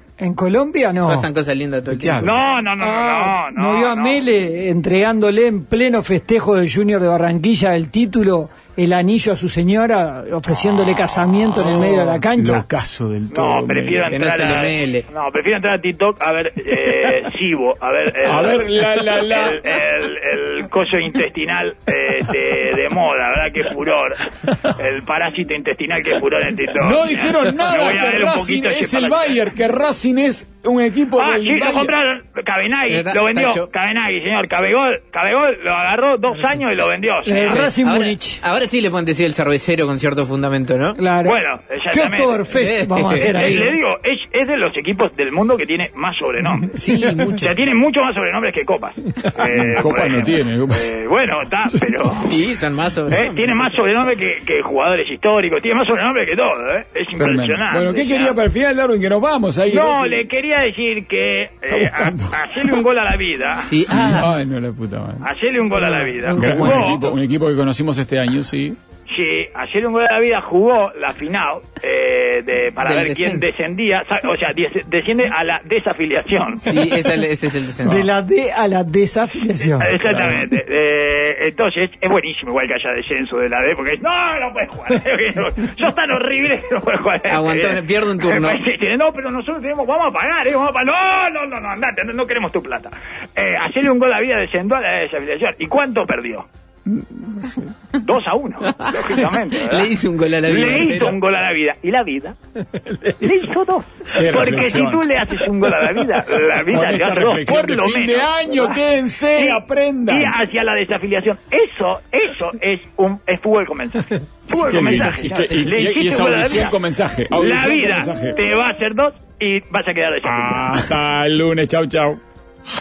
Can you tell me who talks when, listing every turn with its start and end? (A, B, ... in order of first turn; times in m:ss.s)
0:00.2-0:01.3 A
0:01.0-0:02.3 B
0:01.9-0:02.4 C
0:02.2-0:04.2 D
0:02.8-0:12.6 A
0:11.5-0:14.1 C
0:13.3-0:29.4 D
0:14.1-0:15.0 B
0:18.2-0:19.8 C
0:26.8-0:31.9 C
0:31.2-0:37.7 D
0:32.9-0:33.7 B
0:37.2-0:38.4 A
0:37.4-0:41.0 B
0:41.0-0:41.4 A
0:41.2-0:42.5 D
0:41.9-0:43.8 A
0:42.5-0:43.5 B
0:43.2-0:46.7 D
0:46.7-0:47.5 B
0:47.3-0:52.4 D
0:49.5-0:50.9 C
0:51.7-0:52.2 C
0:52.3-0:53.8 B
0:53.1-0:58.4 D
0:57.2-1:00.2 C
0:59.7-1:03.8 D
1:01.7-1:02.8 C
1:03.6-1:04.3 B
1:03.9-1:05.2 C
1:05.2-1:07.1 D
1:05.7-1:07.1 B
1:06.3-1:08.8 C
1:09.1-1:17.0 D
1:12.8-1:13.5 B
1:16.6-1:18.0 B
1:17.8-1:20.0 A
1:19.8-1:36.4 D
1:20.1-1:20.4 B
1:27.3-1:28.6 B
1:36.9-1:37.7 C
1:38.0-1:39.9 D
1:38.7-1:41.2 B
1:40.4-1:42.4 D
1:43.2-1:48.8 D
1:44.1-1:45.0 C
1:46.7-1:50.3 C
1:49.3-1:56.8 D
1:54.5-1:58.4 C
1:54.8-1:55.3 B
1:57.3-2:00.9 D
2:00.2-2:02.2 C